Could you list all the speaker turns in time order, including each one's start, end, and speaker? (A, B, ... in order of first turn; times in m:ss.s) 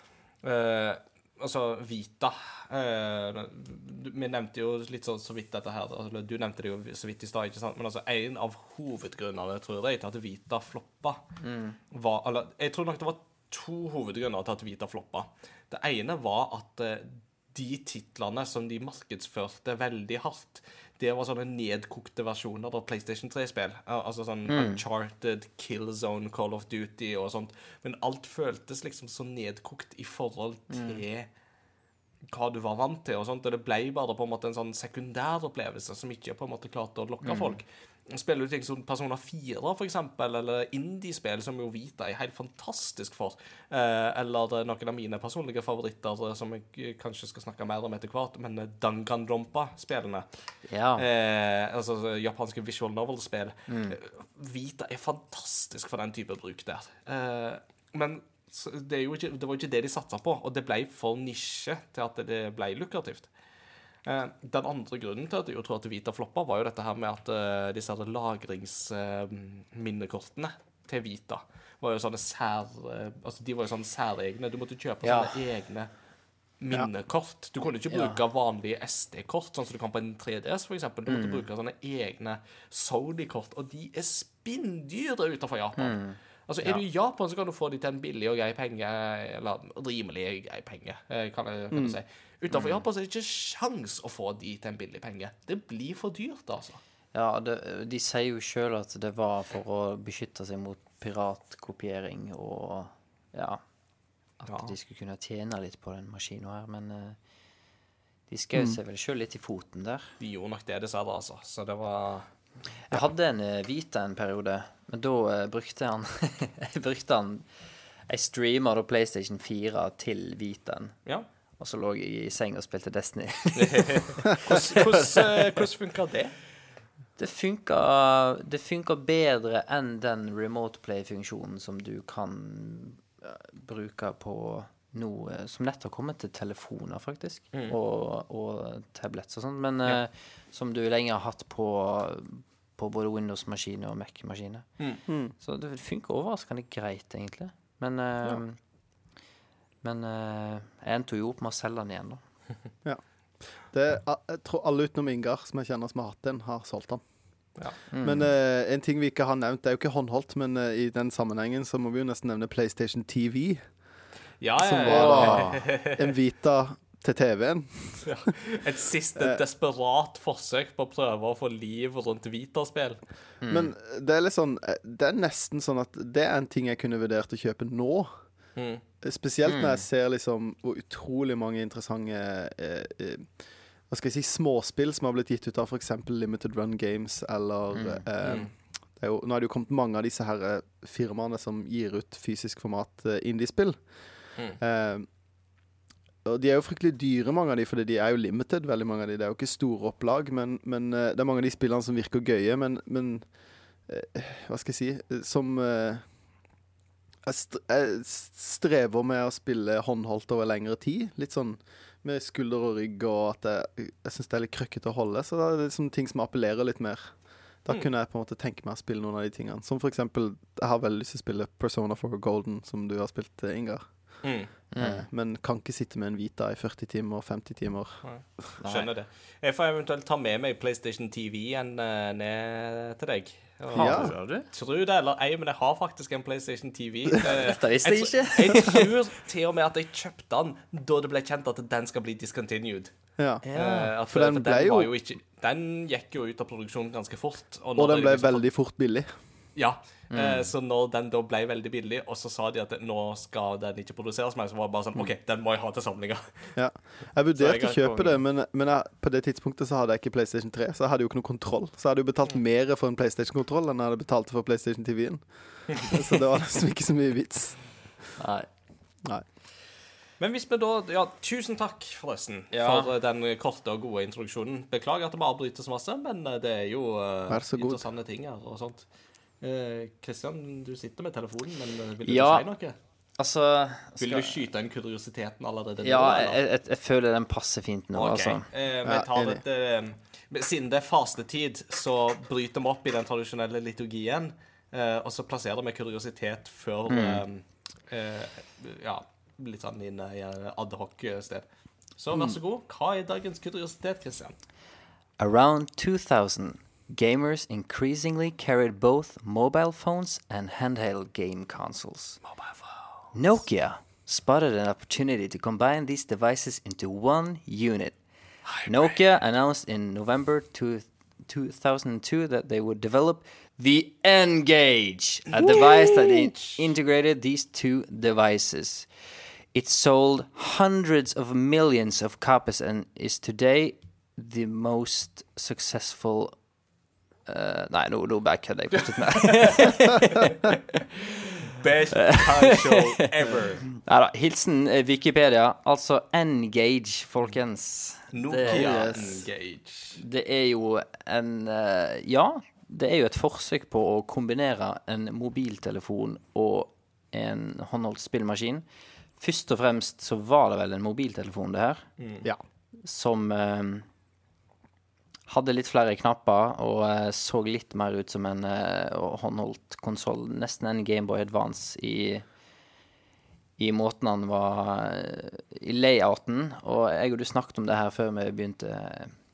0:00.4-0:11.2 A
0:11.4-0:11.8 B
0:11.9-0:31.3 A
0:24.5-0:24.8 B
0:30.7-0:31.0 B
0:32.3-0:50.2 A
0:37.2-0:37.6 B
0:50.7-0:51.0 B
0:51.0-1:03.3 A
0:53.7-0:54.0 B
1:04.0-1:15.9 A
1:15.0-1:15.4 B
1:16.6-1:36.8 A
1:17.9-1:18.2 B
1:21.1-1:21.4 B
1:25.8-1:26.8 B
1:31.7-1:32.0 C
1:32.5-1:32.8 B
1:37.1-1:43.6 B
1:44.4-1:47.2 B
1:44.4-1:44.7 A
1:48.3-1:50.1 B
1:50.2-1:52.3 A
1:52.9-1:57.5 B
1:58.1-2:01.0 B
2:01.6-2:05.3 B
2:03.6-2:06.3 A
2:07.2-2:24.7 B
2:25.1-2:25.3 C
2:25.4-2:28.6 B
2:29.8-2:32.2 B
2:33.7-2:37.0 C
2:37.9-2:38.3 B
2:38.0-2:43.6 C
2:44.4-2:46.2 A
2:44.6-2:48.3 C
2:44.8-2:45.6 B
2:48.0-2:53.0 A
2:49.2-2:49.4 C
2:53.4-2:53.7 B
2:53.5-2:58.1 C
2:58.6-2:58.8 A
2:59.0-3:03.3 C
2:59.4-2:59.8 B
3:03.9-3:13.8 C
3:07.7-3:08.0 B
3:08.2-3:08.5 A
3:14.6-3:15.1 C
3:16.2-3:23.3 C
3:23.9-3:26.0 C
3:27.2-3:37.1 C
3:37.6-3:43.9 C
3:44.2-3:44.5 A
3:44.7-3:45.1 B
3:44.8-3:48.0 C
3:48.0-4:02.9 A
3:48.6-3:48.9 B
3:53.7-3:54.5 B
3:53.7-3:54.1 C
3:57.2-3:58.9 B
4:03.2-4:03.4 C
4:03.4-4:03.9 B
4:03.5-4:08.4 A
4:04.1-4:04.9 C
4:07.8-4:09.1 C
4:09.6-4:16.6 A
4:10.1-4:10.5 B
4:16.6-4:27.6 C
4:17.4-4:18.2 A
4:28.2-4:28.5 B
4:30.2-4:38.8 A
4:32.5-4:32.9 B
4:37.3-4:37.8 C
4:39.4-4:42.7 A
4:42.0-4:42.5 B
4:43.2-4:44.4 B
4:44.0-4:46.4 A
4:45.8-4:48.4 B
4:47.9-5:01.4 A
4:48.8-4:49.4 C
4:56.9-4:57.2 B
5:02.0-5:04.4 A
5:05.2-5:12.2 B
5:12.2-5:13.1 A
5:13.1-5:18.0 B
5:18.5-5:19.0 A
5:18.6-5:28.9 B
5:25.3-5:26.6 A
5:29.5-5:36.4 B
5:37.2-5:40.6 B
5:39.1-5:39.7 A
5:40.9-5:43.7 A
5:41.9-5:43.1 B
5:43.8-5:48.8 B
5:48.1-5:50.0 A
5:48.5-5:49.2 C
5:50.0-5:58.6 B
5:59.2-6:01.9 B
6:02.0-6:02.2 A
6:02.8-6:03.9 B
6:05.3-6:12.3 B
6:13.6-6:19.2 B